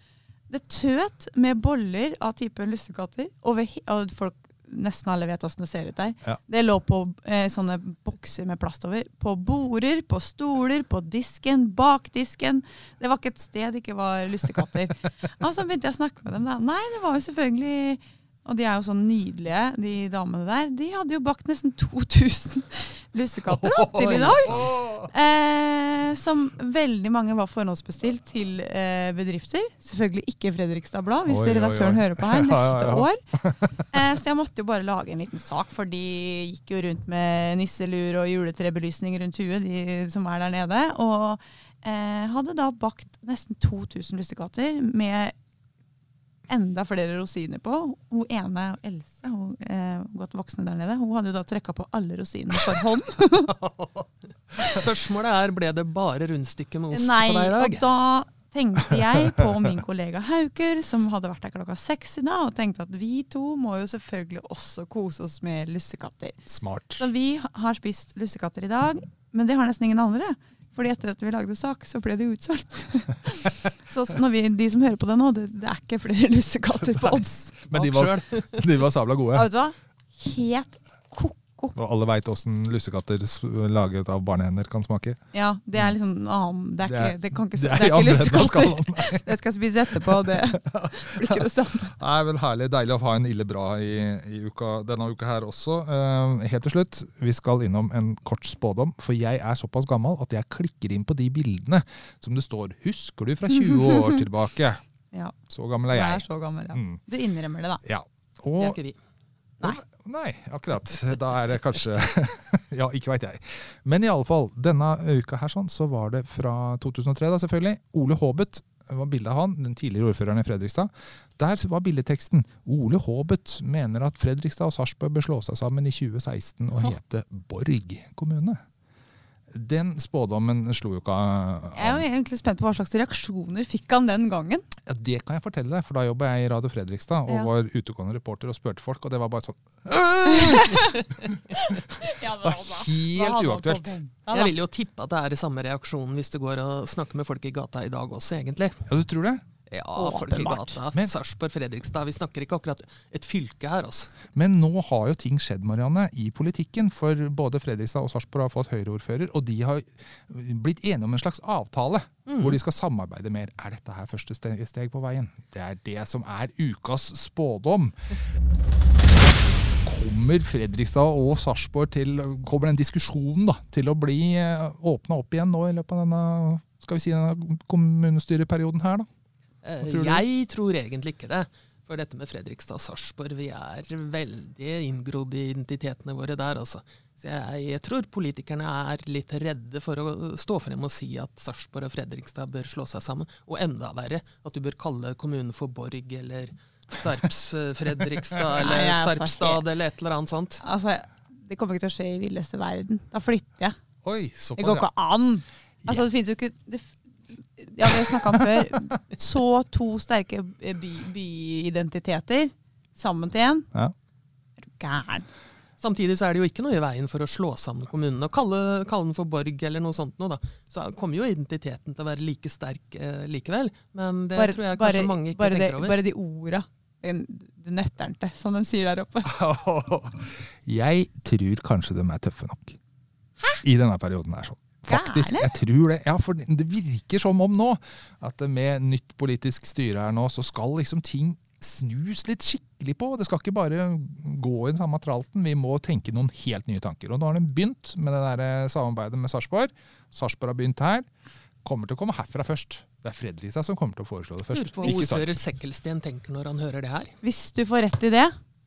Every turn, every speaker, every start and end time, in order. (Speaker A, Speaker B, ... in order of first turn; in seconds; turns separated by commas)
Speaker A: 0.5-33.2, Speaker B: 23.5-25.1, Speaker C: 24.0-24.7, Speaker B: 31.3-33.8, Speaker A: 33.9-45.3, Speaker A: 46.5-53.6, Speaker B: 53.6-53.9, Speaker C: 54.6-57.9, Speaker A: 56.9-66.4, Speaker B: 66.5-67.0, Speaker A: 67.0-77.6, Speaker B: 77.1-79.5, Speaker C: 77.7-78.7, Speaker A: 79.3-81.8, Speaker B: 81.8-85.2, Speaker A: 85.3-92.0, Speaker B: 86.8-89.3, Speaker B: 89.9-104.8, Speaker A: 103.6-104.2, Speaker B: 105.5-107.0, Speaker A: 105.9-107.8, Speaker B: 107.8-108.8, Speaker C: 108.6-109.0, Speaker B: 109.6-128.6, Speaker B: 129.5-132.0, Speaker A: 131.8-134.7, Speaker B: 134.9-144.0, Speaker A: 140.3-141.0, Speaker A: 141.5-144.6, Speaker C: 144.3-148.9, Speaker B: 148.9-149.4, Speaker C: 149.7-154.2, Speaker A: 149.9-150.8, Speaker B: 154.3-168.0, Speaker C: 162.3-162.6, Speaker B: 169.8-179.1, Speaker C: 179.6-200.6, Speaker B: 179.8-180.3, Speaker A: 198.6-199.6, Speaker A: 200.6-203.8, Speaker B: 204.0-204.9, Speaker A: 204.6-213.7, Speaker A: 214.6-215.3, Speaker C: 215.8-226.0, Speaker A: 224.4-229.3, Speaker B: 229.3-232.8, Speaker B: 233.6-251.1, Speaker A: 234.9-235.5, Speaker B: 251.6-255.3, Speaker C: 254.5-257.2, Speaker A: 257.2-258.4